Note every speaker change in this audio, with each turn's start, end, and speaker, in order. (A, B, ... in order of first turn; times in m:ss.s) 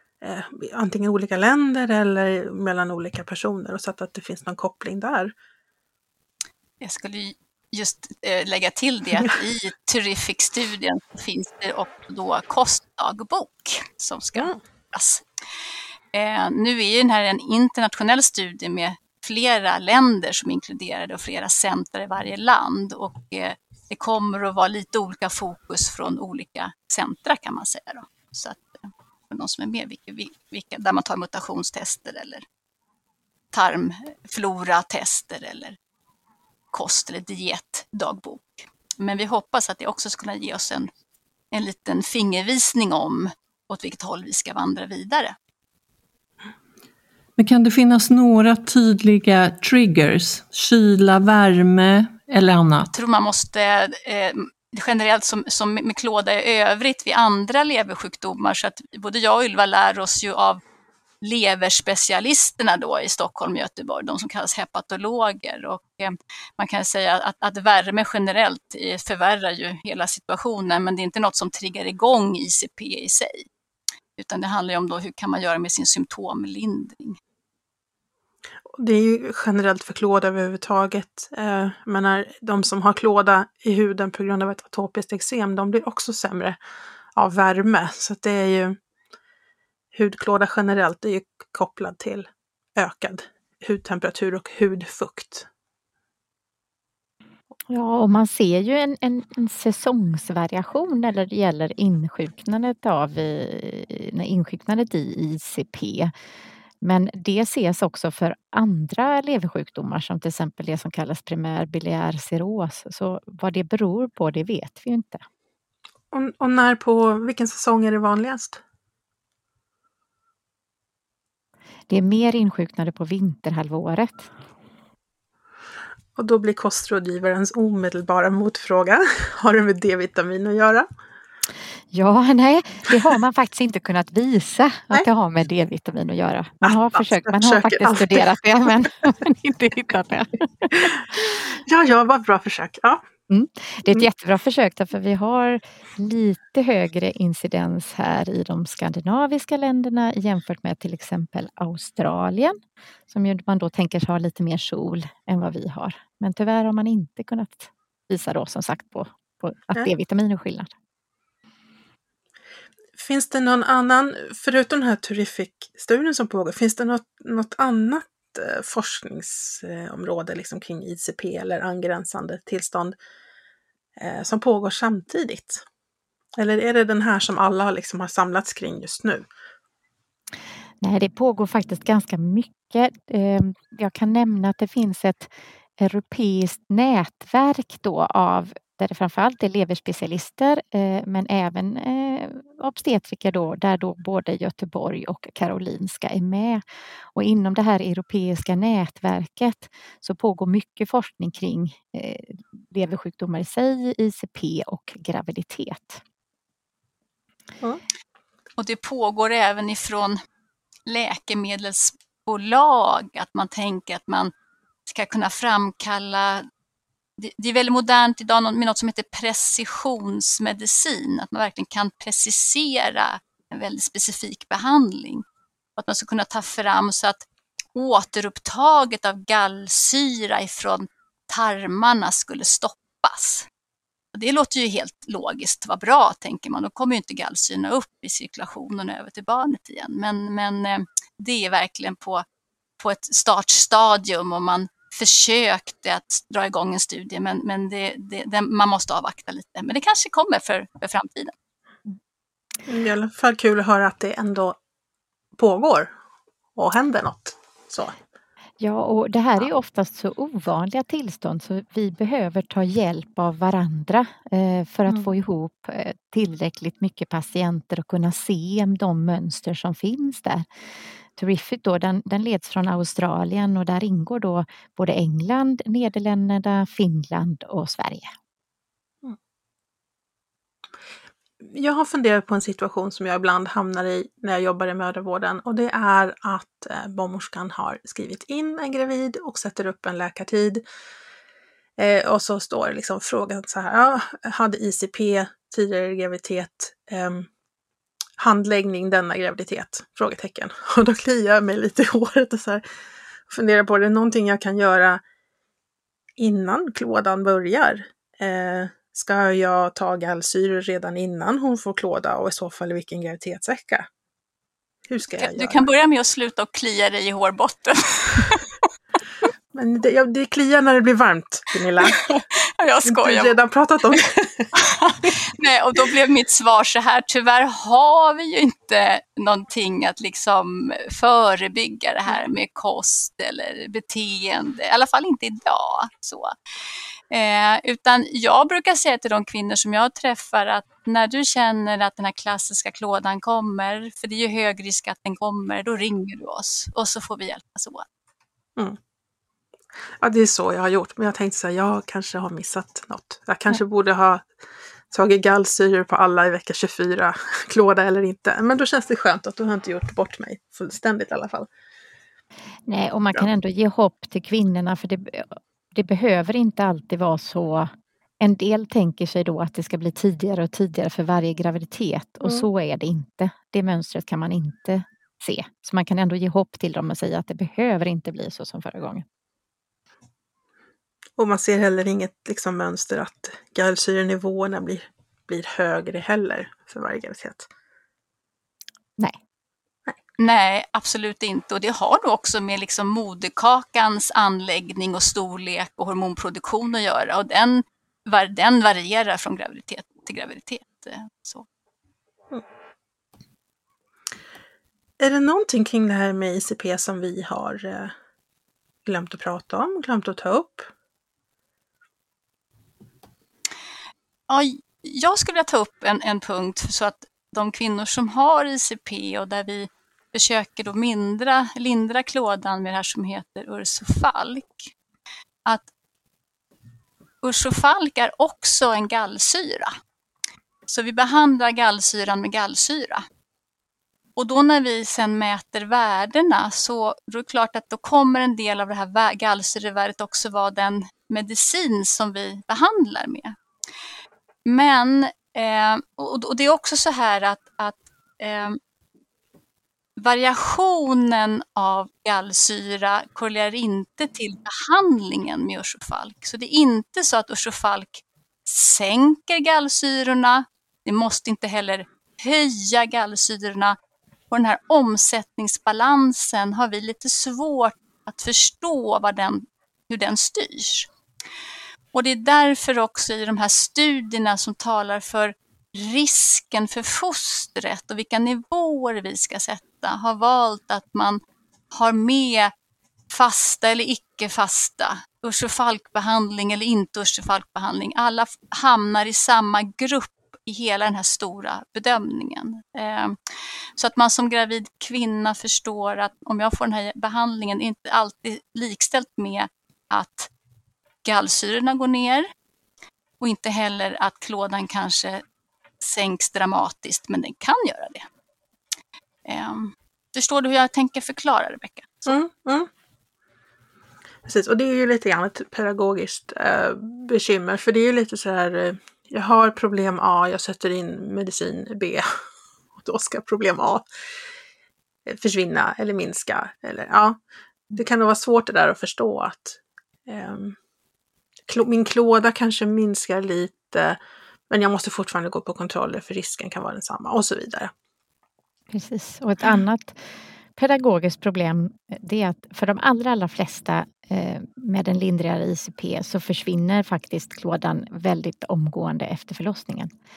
0:00.2-0:05.3 A
0:06.8-0:15.2 B
0:16.1-0:32.4 B
0:33.5-0:35.8 B
0:36.7-0:40.9 B
0:41.5-0:45.3 B
0:47.4-0:52.9 C
0:52.9-1:00.6 B
1:01.2-1:13.4 B
1:14.2-1:17.2 B
1:18.7-1:26.6 A
1:27.2-1:28.8 A
1:29.9-1:35.5 A
1:37.7-1:46.1 D
1:46.8-1:55.2 D
1:56.1-1:58.6 A
2:01.9-2:04.3 D
2:06.2-2:10.9 A
2:11.9-2:21.3 D
2:16.6-2:18.3 A
2:20.8-2:23.0 A
2:23.3-2:40.7 D
2:43.0-2:52.9 A
2:54.0-2:55.6 A
2:56.4-2:59.2 A
3:00.8-3:16.6 D
3:17.1-3:26.0 D
3:28.6-3:30.2 B
3:30.9-3:34.3 B
3:34.9-3:36.4 B
3:37.2-3:45.2 B
3:45.8-3:53.4 B
3:54.1-4:02.2 B
4:02.8-4:11.3 B
4:12.7-4:14.6 A
4:15.4-4:15.9 A
4:16.6-4:18.0 A
4:18.6-4:30.5 D
4:31.2-4:38.1 D
4:41.4-4:50.6 A
4:51.8-4:57.3 A
4:58.2-5:02.6 A
5:03.3-5:05.0 A
5:06.2-5:13.9 A
5:14.9-5:15.6 A
5:15.2-5:18.5 B
5:19.5-5:22.2 A
5:22.2-5:23.3 B
5:22.8-5:25.2 A
5:24.6-5:36.3 B
5:37.1-5:47.8 B
5:50.0-5:54.3 A
5:54.9-6:01.5 A
6:02.7-6:07.7 D
6:08.2-6:19.0 D
6:21.2-6:27.5 A
6:30.2-6:41.4 B
6:45.0-6:47.9 A
6:48.8-6:50.7 A
6:54.3-7:04.7 B
7:07.2-7:09.7 B
7:10.7-7:13.0 B
7:14.2-7:23.4 B
7:24.4-7:28.6 B
7:30.0-7:43.8 B
7:44.3-7:50.9 B
7:51.9-8:01.2 B
8:01.7-8:02.5 B
8:03.1-8:13.2 B
8:13.8-8:20.3 B
8:21.0-8:22.3 B
8:23.2-8:25.2 B
8:25.8-8:28.1 B
8:29.2-8:32.1 B
8:32.1-8:32.7 A
8:34.2-8:42.1 A
8:42.8-8:43.8 A
8:45.1-8:47.2 A
8:47.7-8:50.6 A
8:51.5-8:54.0 A
8:54.5-8:57.7 A
8:58.7-9:09.9 D